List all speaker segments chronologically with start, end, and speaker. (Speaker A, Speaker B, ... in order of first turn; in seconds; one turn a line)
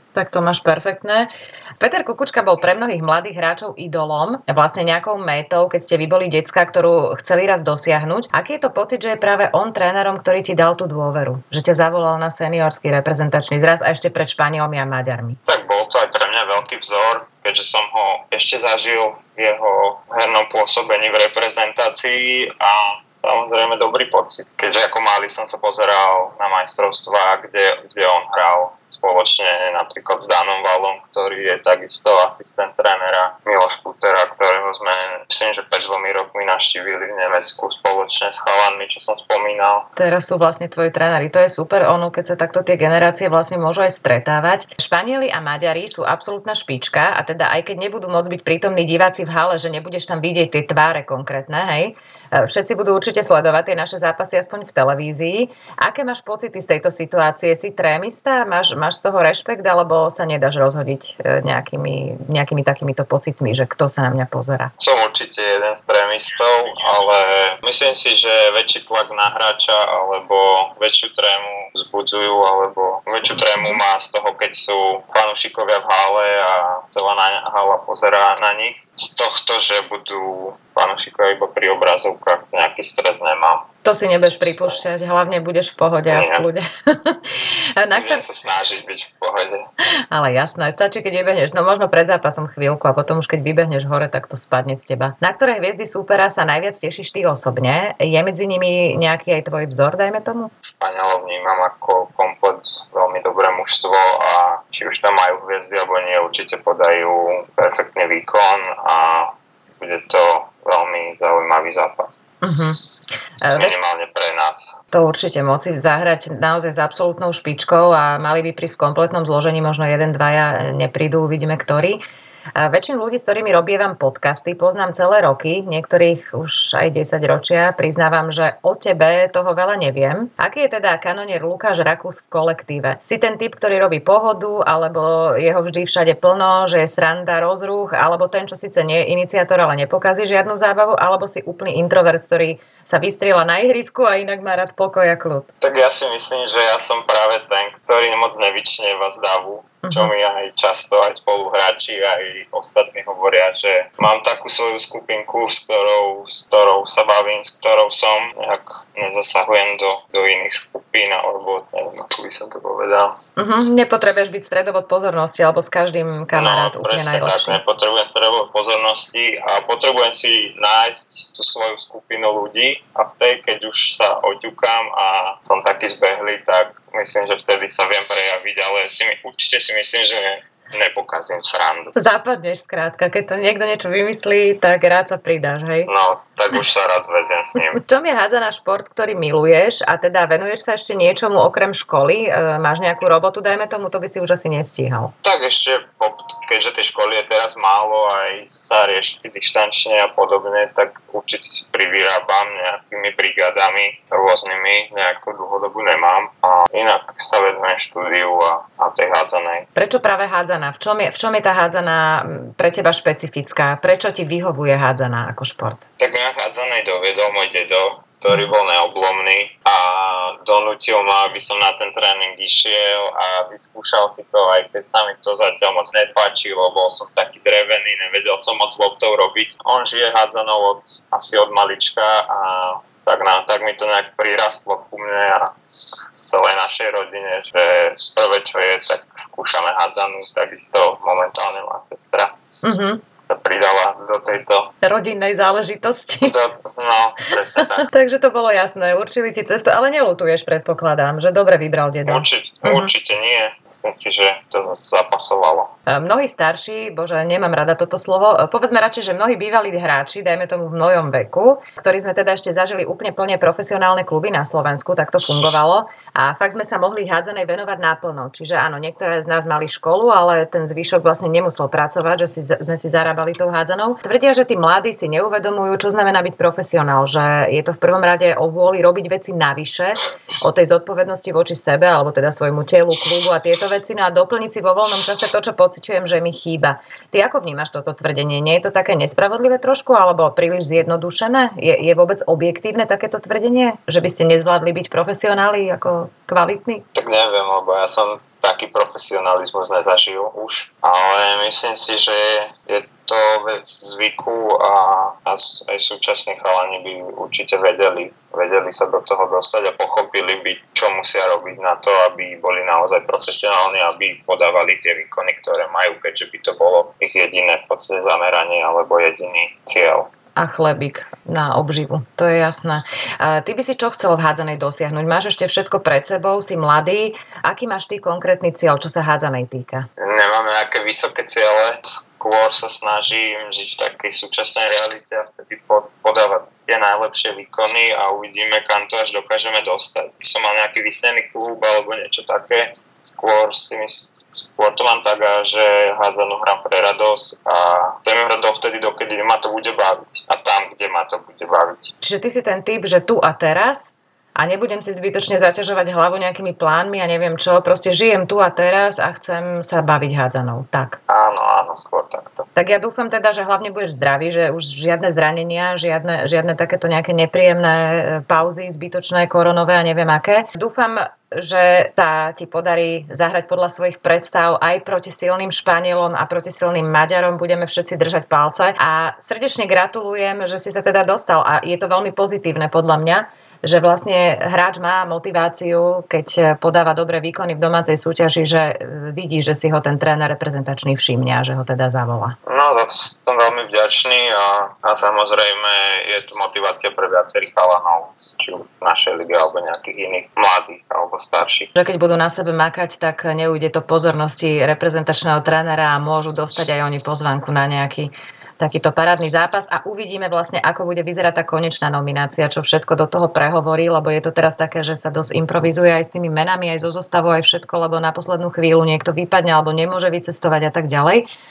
Speaker A: 0.1-15.4
Speaker B: 15.5-39.9
Speaker A: 40.0-64.7
Speaker B: 64.8-83.7
Speaker A: 83.8-88.2
Speaker B: 84.4-84.8
Speaker B: 86.1-86.5
Speaker B: 87.9-89.6
Speaker A: 90.1-100.5
Speaker B: 100.8-112.1
Speaker A: 112.4-112.8
Speaker A: 113.4-113.7
Speaker B: 113.5-114.8
Speaker A: 114.9-122.0
Speaker A: 122.5-145.5
Speaker B: 145.6-163.2
Speaker A: 149.8-150.1
Speaker A: 163.4-167.6
Speaker B: 166.3-181.9
Speaker A: 181.9-185.9
Speaker B: 185.9-187.8
Speaker A: 187.7-195.1
Speaker B: 195.2-209.7
Speaker A: 209.8-215.8
Speaker B: 216.0-242.3
Speaker A: 242.6-243.0
Speaker B: 243.3-244.7
Speaker A: 244.8-246.3
Speaker B: 246.2-247.9
Speaker A: 247.8-252.9
Speaker B: 252.1-255.7
Speaker A: 255.9-296.8
Speaker B: 296.9-320.1
Speaker A: 320.4-329.9
Speaker B: 330.0-351.9
Speaker A: 352.0-361.0
Speaker B: 361.1-362.5
Speaker A: 362.5-392.4
Speaker B: 392.4-401.7
Speaker A: 401.7-421.2